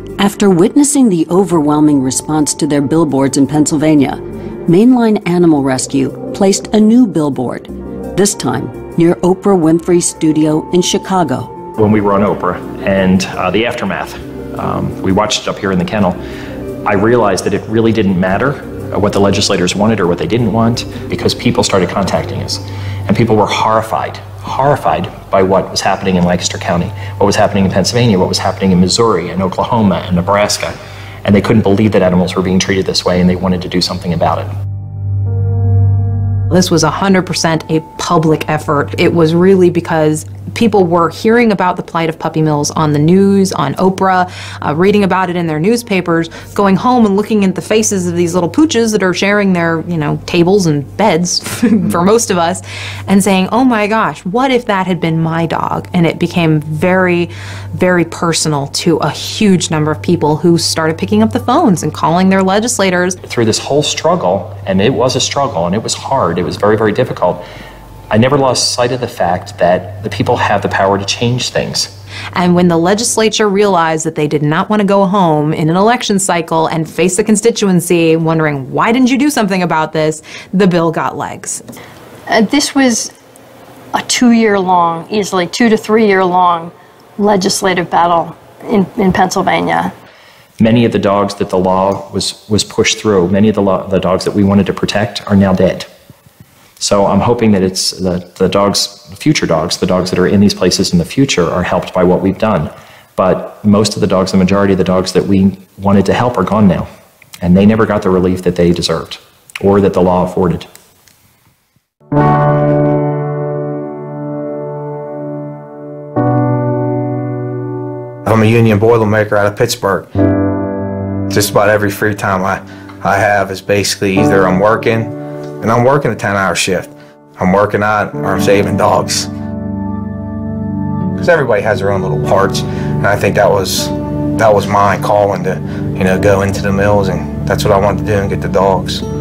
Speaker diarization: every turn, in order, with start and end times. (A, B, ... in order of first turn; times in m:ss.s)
0:00.2-0:11.5 A
0:11.8-0:16.2 B
0:16.8-0:34.5 B
0:36.5-1:03.2 C
1:03.2-1:07.4 B
1:08.1-1:11.9 B
1:12.3-1:21.6 C
1:22.3-1:23.1 D
1:23.9-1:29.9 D
1:30.6-1:35.9 B
1:36.8-1:46.9 B
1:47.4-1:50.7 B
1:58.2-2:00.1 E
2:01.3-2:09.3 E
2:11.2-2:19.0 E